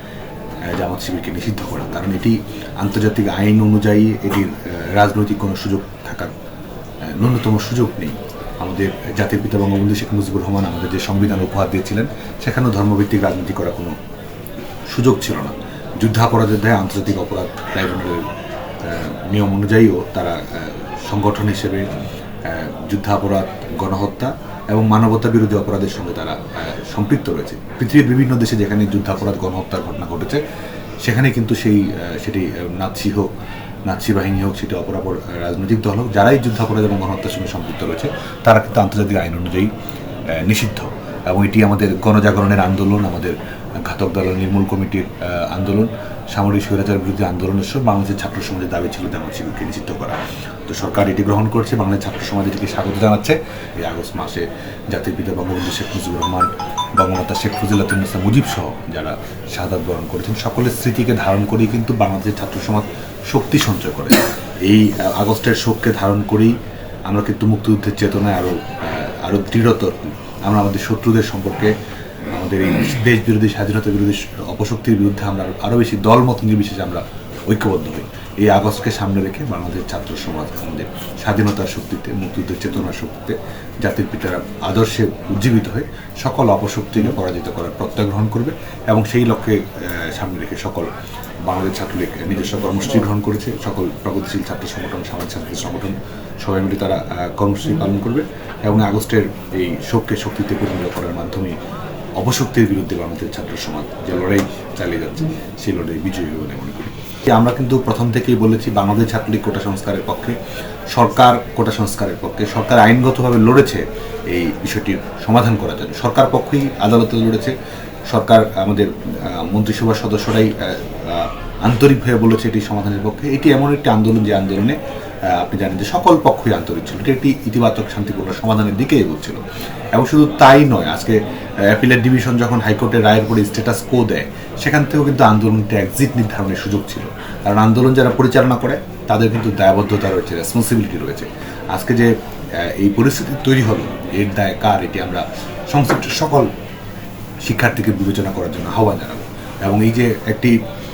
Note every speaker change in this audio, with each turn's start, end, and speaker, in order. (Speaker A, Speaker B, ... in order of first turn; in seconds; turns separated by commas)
Speaker A: 0.7-6.3, Speaker A: 7.0-13.9, Speaker A: 14.9-18.2, Speaker A: 18.8-21.9, Speaker A: 22.4-30.4, Speaker A: 31.0-33.3, Speaker A: 33.9-39.7, Speaker A: 40.3-66.5, Speaker A: 67.1-71.7, Speaker A: 72.3-90.9, Speaker A: 91.5-101.5, Speaker A: 102.2-110.4, Speaker A: 110.9-117.5, Speaker A: 118.1-129.4, Speaker A: 129.9-146.5, Speaker A: 147.4-150.6